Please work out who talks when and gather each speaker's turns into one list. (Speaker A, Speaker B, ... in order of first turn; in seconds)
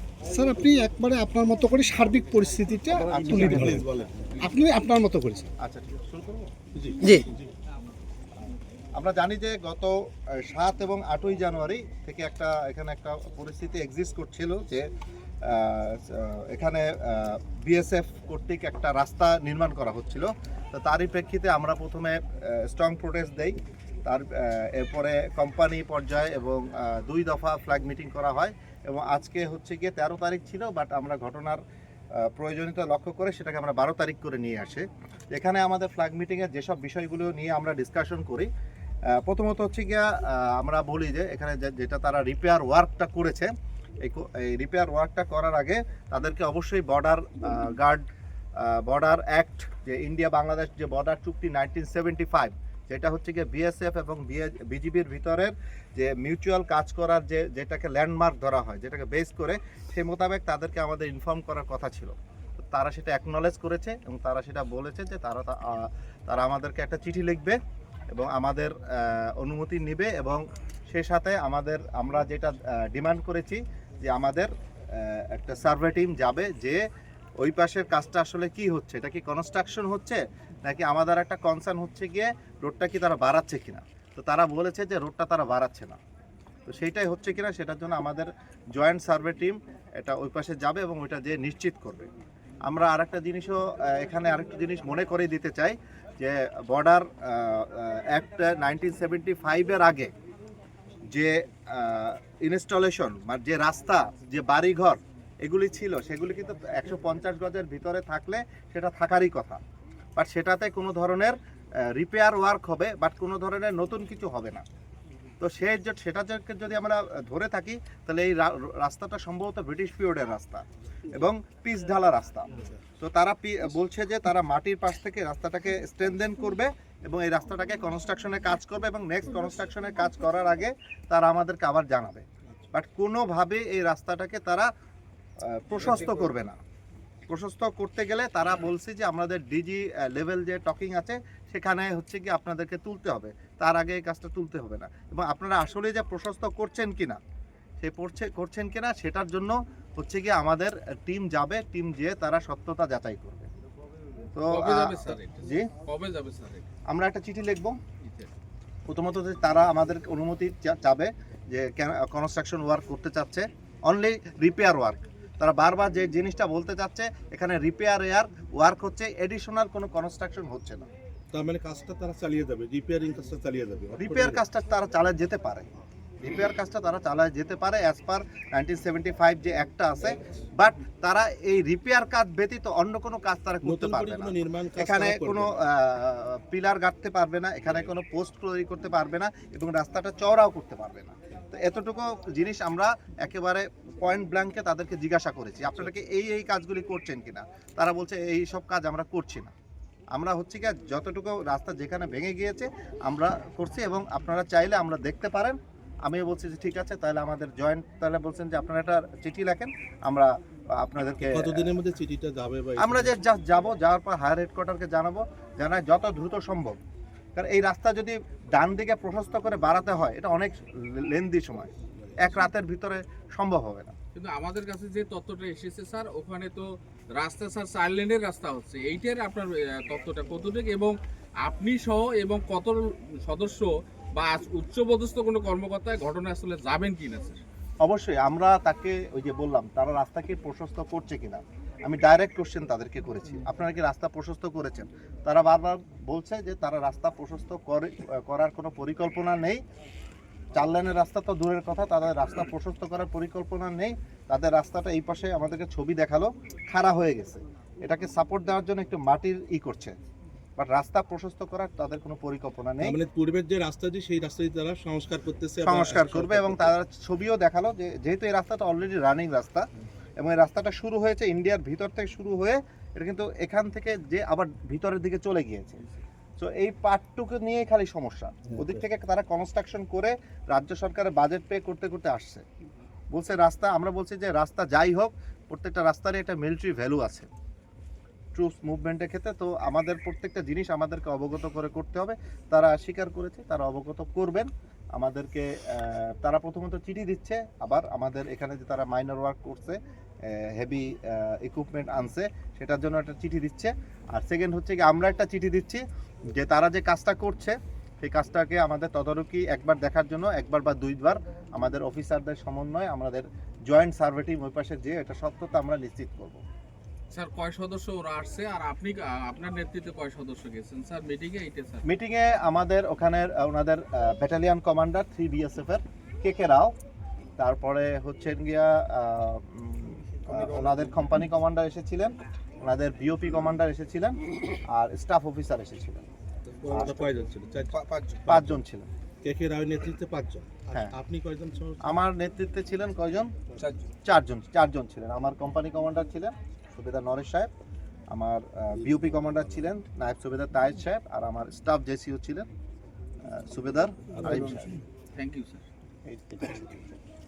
Speaker A: 0.3-3.8, 4.4-5.5
Speaker B: 3.0-4.4, 6.8-7.3, 171.3-174.4, 183.6-185.6, 211.2-213.2, 262.8-266.7, 278.5-278.7, 336.5-338.6, 339.2-342.0, 354.1-354.8
Speaker C: 3.1-3.8, 5.6-6.5, 9.0-14.9, 15.4-31.6, 32.2-38.5, 39.2-43.5, 44.0-48.1, 48.6-67.6, 68.1-76.8, 77.4-86.0, 86.7-92.1, 92.7-100.1, 101.1-109.6, 110.2-114.6, 115.4-134.7, 135.4-136.6, 137.3-147.2, 147.8-153.5, 154.3-155.7, 156.9-157.8, 158.9-170.9, 173.9-175.7, 176.2-199.5, 200.1-211.7, 212.8-216.8, 217.4-223.9, 237.8-249.6, 250.5-260.0, 260.6-263.0, 265.6-269.7, 270.2-275.8, 276.4-282.4, 283.1-287.3, 288.4-316.4, 321.9-326.7, 327.4-336.0, 336.7-337.1, 337.8-338.9, 341.8-343.3, 344.0-347.5, 348.1-352.5, 353.2-354.8, 356.1-356.8
Speaker D: 154.5-156.7, 158.0-158.3, 224.1-237.4, 317.1-321.9, 343.6-343.9, 355.1-355.6